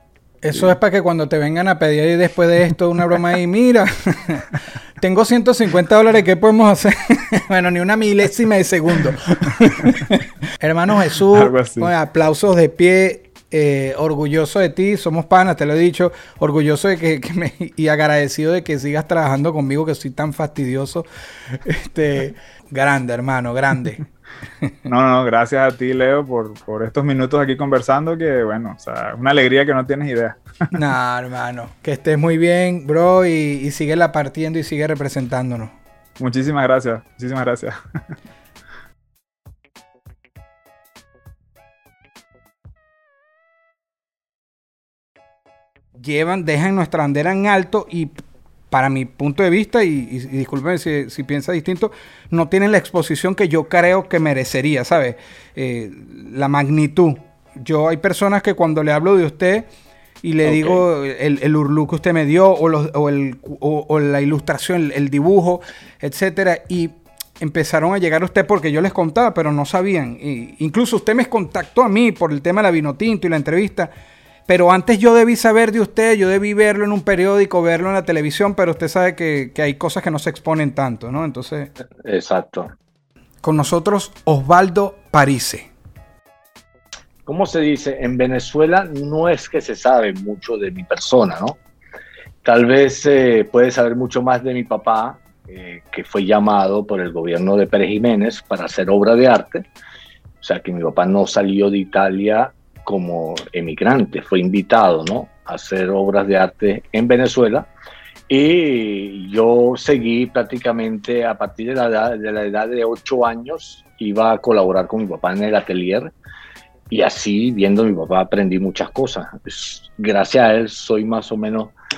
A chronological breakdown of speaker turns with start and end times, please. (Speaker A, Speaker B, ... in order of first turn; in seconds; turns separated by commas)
Speaker A: 0.4-24.0, Speaker B: 11.3-11.9, Speaker B: 24.9-30.7, Speaker A: 30.7-35.7, Speaker B: 36.2-37.8, Speaker A: 46.0-59.7, Speaker A: 60.2-73.9, Speaker C: 60.4-60.8, Speaker A: 74.5-81.7, Speaker C: 82.0-82.7, Speaker A: 83.4-85.7, Speaker C: 87.2-91.6, Speaker C: 92.4-99.7, Speaker C: 100.4-107.7, Speaker C: 108.3-116.1, Speaker C: 116.9-121.7